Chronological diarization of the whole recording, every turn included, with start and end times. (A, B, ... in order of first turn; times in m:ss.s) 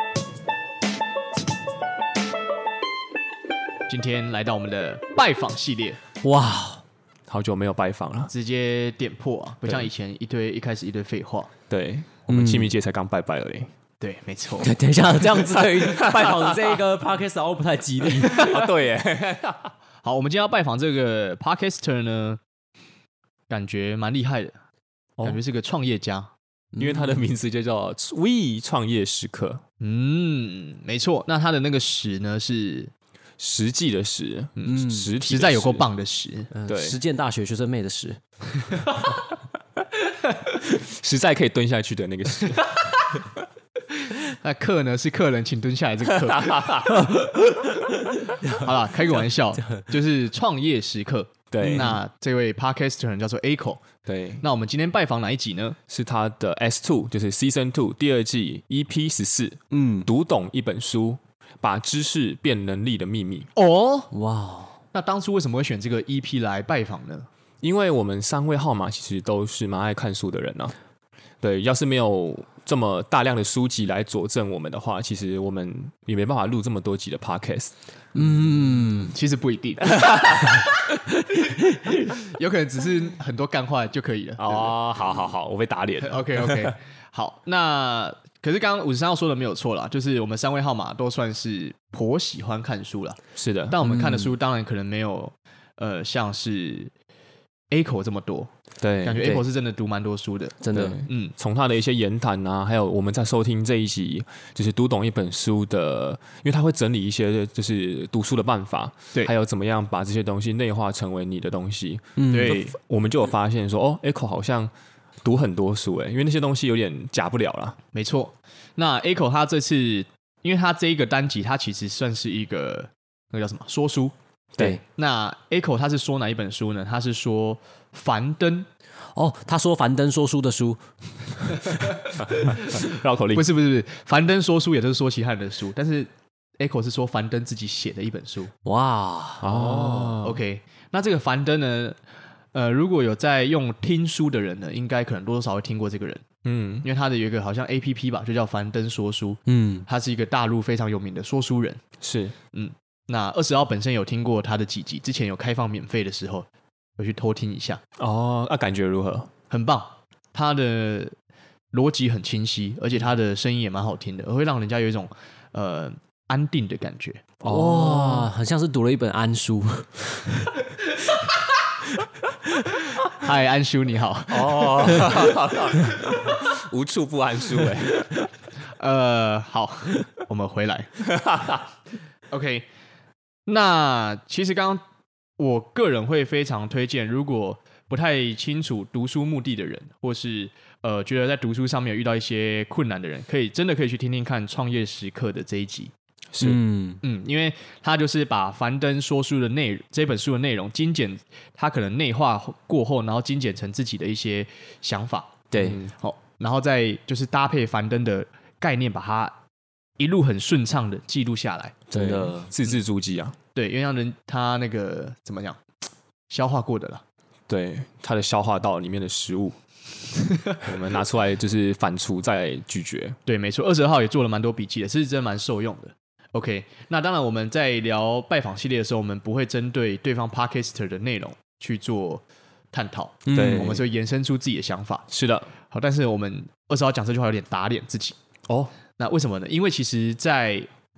0:03.9-0:06.0 A
0:06.2-0:06.8 B
0:07.3-0:08.3 C
0:08.3-0:11.5 A
0:11.7-0:13.7 C
0:12.3-0:12.7 B
0:14.0-0:14.7 A
0:14.6-0:18.5 B
0:15.4-0:16.8 C
0:18.2-0:19.7 C
0:20.0-0:22.4 A
0:23.5-0:24.5 A
0:25.2-0:26.3 A
0:26.8-0:27.2 B
0:26.8-0:29.6 C
0:29.8-0:32.9 A
0:33.4-0:35.8 C
0:34.6-0:36.5 A
0:34.7-0:35.1 B
0:36.5-0:38.9 B
0:36.7-0:37.0 C
0:40.6-0:43.2 C
0:44.0-0:47.6 A
0:46.2-0:47.1 C
0:48.5-0:53.8 A
0:51.5-0:52.0 C
0:54.0-0:54.4 C
0:54.4-0:55.8 A
0:55.9-1:03.5 C
0:59.7-1:00.1 B
1:03.5-1:04.1 A
1:04.1-1:04.8 B
1:04.9-1:07.3 A
1:07.6-1:10.7 C
1:11.4-1:17.7 C
1:18.1-1:19.1 B
1:19.0-1:24.7 A
1:19.9-1:20.7 C
1:24.4-1:26.7 C
1:26.0-1:33.2 A
1:33.4-1:33.8 C
1:33.7-1:36.9 A
1:33.8-1:34.3 B
1:37.7-1:38.5 A
1:38.8-1:39.3 C
1:39.0-1:41.3 A
1:40.6-1:41.0 B
1:40.7-1:54.7 C
1:52.2-1:52.6 B
1:52.3-1:52.8 A
1:55.2-1:57.8 C
1:57.9-2:04.1 A
2:04.9-2:08.7 A
2:09.1-2:11.7 B
2:12.1-2:18.5 A
2:12.2-2:13.5 C
2:18.6-2:20.2 B
2:19.4-2:20.4 C
2:20.2-2:22.0 A
2:22.5-2:26.2 A
2:26.4-2:26.8 C
2:26.8-2:31.8 A
2:29.4-2:29.9 B
2:32.0-2:32.4 C
2:32.5-2:36.5 A
2:37.0-2:37.8 A
2:38.0-2:39.3 C
2:39.5-2:41.1 A
2:41.7-2:47.2 A
2:47.4-2:48.3 C
2:47.4-2:50.5 B
2:52.9-2:55.4 A
2:54.3-2:58.3 C
2:58.6-3:01.0 A
3:01.0-3:01.7 C
3:02.3-3:02.7 A
3:03.5-3:04.8 A
3:05.4-3:15.9 A
3:16.3-3:16.6 C
3:16.4-3:17.0 B
3:17.0-3:29.4 A
3:25.5-3:25.8 B
3:25.6-3:25.9 C
3:30.0-3:31.8 A
3:31.9-3:32.5 B
3:31.9-3:33.4 C
3:33.5-3:35.6 A
3:36.3-3:37.0 A
3:37.5-3:39.5 C
3:40.5-3:43.2 C
3:43.2-3:55.1 A
3:53.2-3:53.8 B
3:53.3-3:53.8 C
3:55.1-3:55.5 C
3:55.6-3:58.2 A
3:59.0-4:00.7 A